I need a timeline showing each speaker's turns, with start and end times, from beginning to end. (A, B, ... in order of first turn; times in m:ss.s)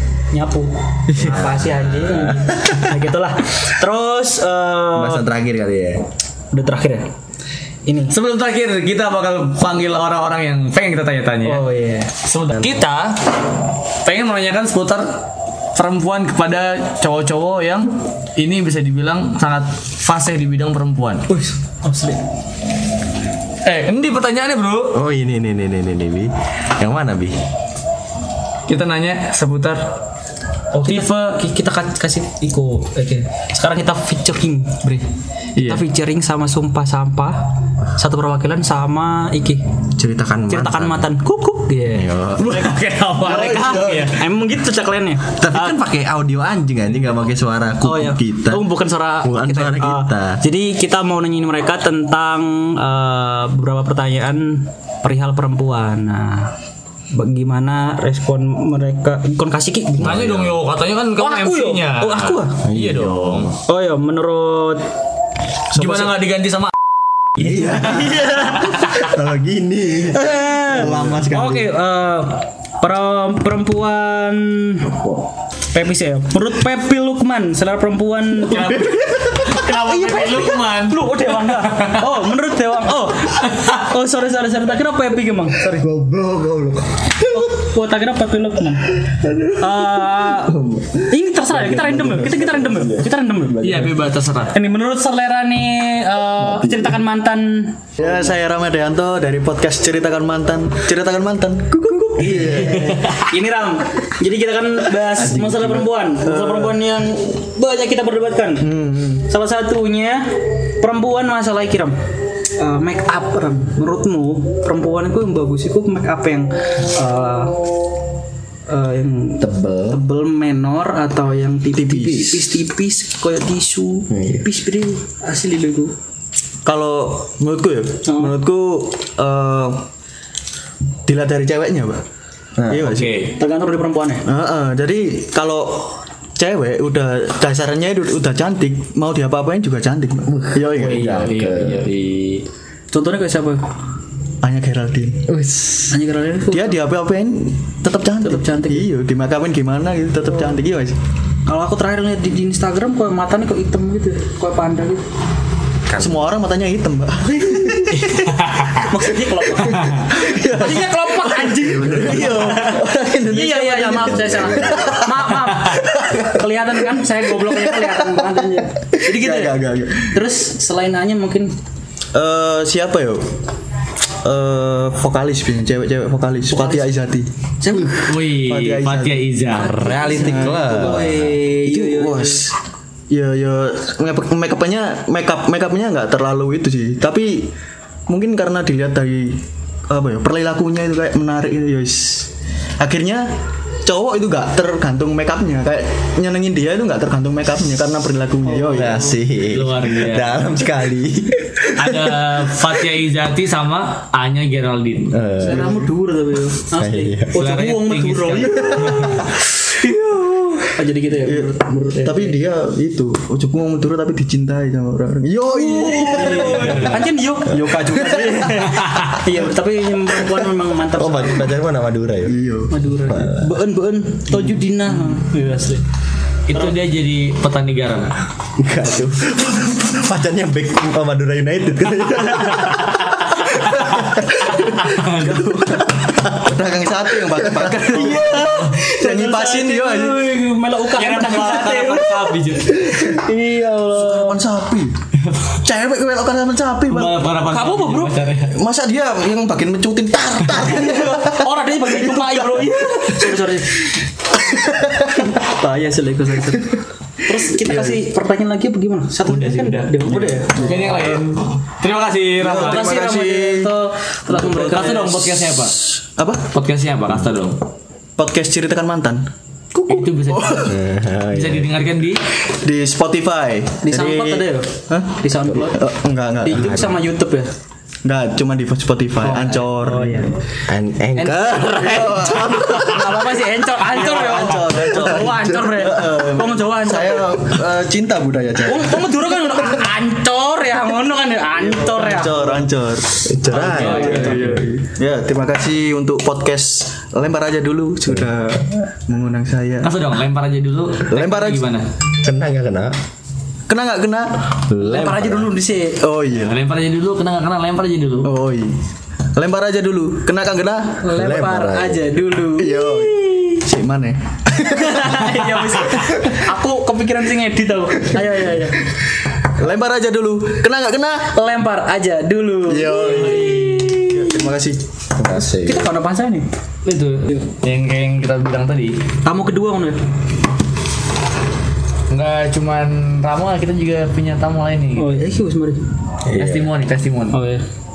0:00.3-0:05.2 A
0:01.1-0:01.4 B
0:01.2-0:02.9 C
0:04.9-0:06.0 C
0:06.5-0:07.1 A
0:07.9-0:08.1 A
0:08.1-0:11.6 B
0:11.4-0:12.1 A
0:12.2-0:13.2 B
0:12.5-0:12.8 C
0:14.0-0:15.1 B
0:15.7-0:21.2 B
0:21.3-0:22.2 A
0:23.6-0:25.0 B
0:24.9-0:27.4 C
0:28.7-0:29.8 B
0:30.7-0:39.6 A
0:35.6-0:35.8 B
0:40.0-0:41.1 C
0:40.5-0:42.1 A
0:41.9-0:42.7 C
0:42.4-0:44.2 B
0:43.3-0:45.7 A
0:43.3-0:44.1 D
0:45.4-0:50.4 C
0:47.8-0:56.5 A
0:57.1-1:00.2 A
1:00.0-1:00.6 C
1:00.0-1:03.5 B
1:01.2-1:02.6 A
1:02.6-1:03.6 C
1:03.7-1:04.8 A
1:05.7-1:06.7 B
1:05.7-1:06.1 D
1:07.4-1:11.7 C
1:07.9-1:09.0 B
1:08.0-1:08.6 A
1:10.1-1:15.0 A
1:15.7-1:25.9 A
1:18.4-1:22.0 B
1:25.7-1:27.5 C
1:27.3-1:28.9 A
1:29.1-1:34.1 C
1:29.6-1:30.5 A
1:31.1-1:33.6 A
1:33.6-1:34.5 B
1:34.5-1:37.9 A
1:36.4-1:36.8 C
1:38.0-1:43.0 D
1:42.0-1:50.3 A
1:42.2-1:42.9 C
1:45.1-1:45.9 C
1:46.2-1:46.8 D
1:48.6-1:49.2 D
1:50.8-1:52.0 A
1:52.6-1:57.5 A
1:58.7-2:05.9 A
1:59.4-2:00.0 C
2:01.7-2:02.5 D
2:04.1-2:04.5 C
2:06.6-2:09.8 D
2:08.0-2:08.4 A
2:11.0-2:12.0 D
2:12.6-2:12.8 C
2:12.7-2:13.3 D
2:12.8-2:13.3 B
2:13.4-2:14.2 A
2:14.2-2:20.9 D
2:20.4-2:21.9 C
2:20.8-2:22.4 B
2:22.9-2:23.6 A
2:24.4-2:25.2 D
2:25.5-2:25.8 B
2:25.9-2:26.8 A
2:26.5-2:31.0 D
2:28.2-2:28.9 A
2:31.4-2:35.0 A
2:36.0-2:38.1 D
2:37.9-2:42.8 A
2:40.1-2:45.1 D
2:41.6-2:42.3 C
2:43.3-2:51.5 A
2:44.0-2:45.0 C
2:47.5-2:48.1 D
2:49.0-2:50.2 D
2:52.1-2:53.3 D
2:54.2-2:59.3 D
2:56.5-2:56.8 A
2:57.6-2:58.0 A
2:57.9-3:00.0 B
2:59.5-3:01.1 C
2:59.5-3:02.4 A
3:00.1-3:02.5 D
3:03.1-3:07.5 D
3:08.1-3:13.2 D
3:13.8-3:19.1 D
3:18.5-3:19.1 A
3:18.7-3:22.2 C
3:19.5-3:20.5 B
3:21.7-3:25.2 B
3:25.1-3:25.8 C
3:25.4-3:29.2 A
3:26.7-3:27.3 C
3:27.3-3:29.2 B
3:29.8-3:30.6 D
3:30.7-3:32.4 A
3:31.2-3:38.6 D
3:35.5-3:41.5 A
3:38.8-3:39.1 B
3:41.0-3:42.4 C
3:42.3-3:42.7 D
3:42.7-3:45.8 A
3:43.0-3:43.5 C
3:46.5-3:48.1 B
3:48.6-3:54.6 C
3:55.0-4:00.3 D
3:57.8-4:04.4 A
4:01.0-4:02.7 B
4:02.8-4:04.9 D
4:05.6-4:07.3 D
4:06.9-4:08.5 B
4:07.5-4:08.1 A
4:08.5-4:13.4 D
4:10.6-4:13.9 A
4:14.4-4:16.8 D
4:17.2-4:20.7 A
4:17.5-4:18.0 D
4:19.2-4:23.1 B
4:20.1-4:21.4 D
4:22.4-4:23.7 D
4:22.4-4:25.5 A
4:24.3-4:26.5 D
4:24.5-4:25.8 B
4:26.5-4:27.6 B
4:28.2-4:30.7 D
4:29.8-4:30.8 B
4:30.6-4:31.7 C
4:31.3-4:32.2 B
4:32.6-4:36.9 D
4:33.8-4:35.8 A
4:36.4-4:37.5 A
4:36.6-4:37.0 C
4:38.0-4:40.3 D
4:39.2-4:39.6 B
4:39.9-4:40.3 A
4:40.7-4:41.6 C
4:41.2-4:43.2 D
4:41.6-4:47.4 A
4:43.8-4:49.2 D
4:48.6-4:52.6 A
4:51.7-5:00.0 D
4:53.2-4:54.7 C
4:53.5-4:54.6 B
4:53.8-4:54.3 A
4:59.8-5:01.8 B
5:01.1-5:01.7 D
5:02.2-5:02.9 C
5:03.7-5:04.5 D
5:04.7-5:05.5 C
5:04.8-5:06.0 A
5:06.0-5:06.6 D
5:06.4-5:08.3 B
5:08.2-5:08.7 D
5:09.3-5:11.0 D
5:11.0-5:13.6 A
5:11.1-5:12.1 C
5:12.5-5:15.3 D
5:14.6-5:18.8 A
5:19.5-5:21.3 D
5:21.3-5:24.4 A
5:22.7-5:24.9 D
5:23.1-5:23.9 B
5:25.2-5:25.9 C
5:25.3-5:26.5 A
5:26.8-5:29.0 B
5:29.2-5:30.0 A
5:32.1-5:35.2 B
5:35.0-5:35.8 A
5:36.2-5:36.7 C
5:36.4-5:37.4 B
5:37.3-5:37.6 A